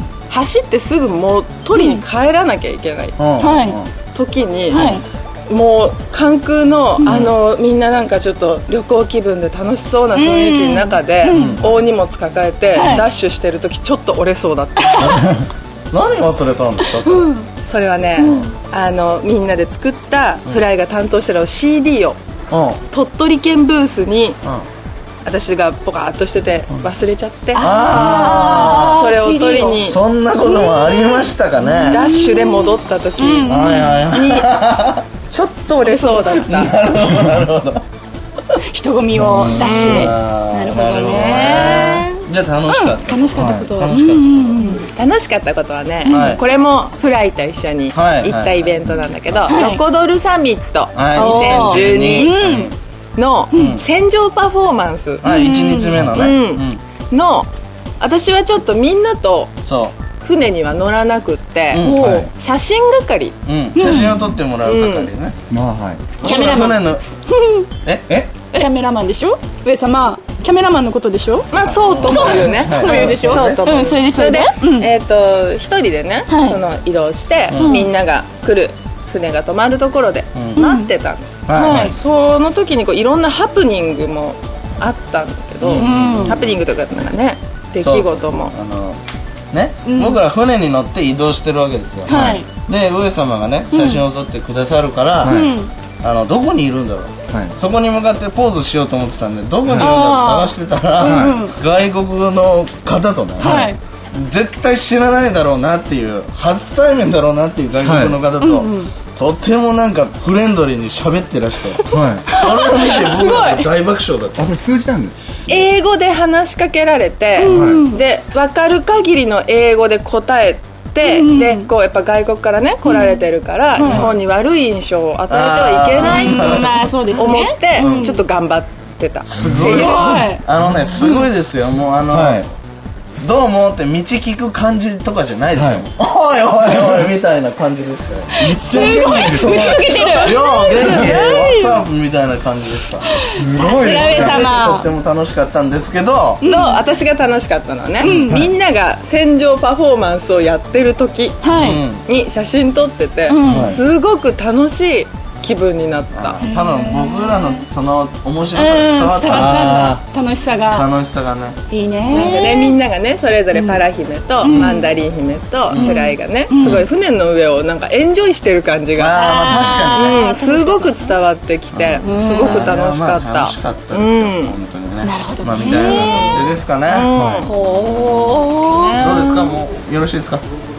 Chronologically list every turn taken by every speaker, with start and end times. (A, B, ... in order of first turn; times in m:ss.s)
0:00.3-0:03.5 A
0:01.8-0:02.0 B
0:03.2-0:03.9 C
0:03.4-0:03.8 B
0:04.1-0:15.3 A
0:04.7-0:05.0 B
0:07.0-0:07.3 C
0:10.2-0:11.6 B
0:11.3-0:11.8 C
0:12.7-0:13.0 B
0:15.0-0:17.3 C
0:17.0-0:17.5 B
0:17.6-0:22.2 A
0:18.2-0:18.5 C
0:22.5-0:22.8 C
0:22.9-0:24.4 A
0:25.2-0:30.0 A
0:27.5-0:29.8 B
0:27.6-0:29.0 C
0:29.8-0:32.0 C
0:30.4-0:31.0 B
0:31.6-0:34.0 B
0:31.9-0:34.5 A
0:33.4-0:35.0 C
0:35.3-0:36.9 A
0:35.8-0:36.4 B
0:36.3-0:37.8 C
0:38.7-0:44.8 B
0:39.2-0:44.8 C
0:39.2-0:39.6 D
0:39.7-0:40.1 A
0:41.0-0:41.8 A
0:43.4-0:43.7 D
0:44.9-0:52.6 A
0:46.0-0:46.4 B
0:46.0-0:46.4 C
0:47.9-0:49.6 C
0:49.5-0:49.8 B
0:50.9-0:52.8 C
0:51.2-0:52.7 B
0:53.2-0:55.5 A
0:53.5-0:53.8 C
0:55.2-0:56.8 C
0:55.2-0:56.0 B
0:55.9-0:56.3 D
0:56.1-0:57.5 A
0:58.0-0:59.5 A
0:59.6-1:00.0 C
1:00.2-1:03.4 A
1:01.7-1:02.2 C
1:01.8-1:02.3 D
1:03.4-1:05.4 C
1:03.8-1:04.3 B
1:04.6-1:05.1 A
1:05.5-1:06.3 D
1:06.2-1:07.0 C
1:06.2-1:07.7 B
1:08.5-1:11.5 B
1:11.5-1:28.6 A
1:11.7-1:13.6 C
1:12.0-1:14.9 B
1:16.3-1:16.6 B
1:17.5-1:17.9 C
1:17.5-1:17.9 B
1:20.4-1:20.6 C
1:20.6-1:20.9 B
1:21.5-1:21.8 C
1:21.6-1:22.0 D
1:25.6-1:26.6 C
1:25.7-1:26.4 B
1:27.8-1:29.0 C
1:29.5-1:35.5 C
1:29.8-1:30.2 B
1:32.1-1:32.5 B
1:32.1-1:32.4 D
1:33.7-1:34.0 B
1:35.2-1:35.6 D
1:35.2-1:35.7 B
1:36.0-1:54.5 C
1:39.7-1:40.0 D
1:39.8-1:41.6 B
1:41.0-1:41.4 D
1:43.4-1:43.7 D
1:43.4-1:43.8 B
1:47.8-1:48.2 D
1:48.4-1:48.9 B
1:51.9-1:52.3 D
1:52.3-1:53.7 B
1:54.4-1:55.7 D
1:55.5-2:10.1 A
1:57.4-1:58.0 B
1:57.5-1:57.9 D
2:01.0-2:01.7 B
2:02.8-2:03.2 B
2:03.8-2:04.1 B
2:03.8-2:04.2 D
2:05.3-2:06.9 C
2:06.0-2:08.2 B
2:07.8-2:08.2 C
2:09.3-2:12.5 C
2:09.4-2:09.7 D
2:09.7-2:10.4 B
2:11.0-2:11.3 B
2:12.1-2:12.5 D
2:13.2-2:26.4 C
2:15.6-2:15.9 D
2:18.4-2:21.2 D
2:18.6-2:21.8 B
2:23.1-2:24.9 B
2:23.3-2:24.5 D
2:26.4-2:26.8 B
2:26.5-2:31.4 A
2:28.0-2:28.4 B
2:31.4-2:31.8 B
2:31.5-2:32.0 C
2:31.9-2:36.4 A
2:33.3-2:33.8 B
2:33.5-2:33.8 D
2:36.1-2:40.0 C
2:36.4-2:37.6 B
2:38.6-2:40.9 B
2:40.7-2:42.4 C
2:41.7-2:42.8 B
2:42.1-2:54.6 A
2:43.5-2:43.8 B
2:44.4-2:44.9 B
2:44.4-2:44.8 C
2:45.7-2:46.0 C
2:45.7-2:46.9 B
2:46.6-2:46.9 C
2:49.0-2:50.3 C
2:49.2-2:51.1 B
2:51.7-2:57.1 C
2:52.0-2:52.7 B
2:55.0-2:56.5 B
2:55.7-2:57.5 A
2:57.2-2:57.5 D
2:57.4-2:59.0 B
2:57.7-2:58.4 C
2:58.6-2:59.6 A
2:59.0-3:00.4 C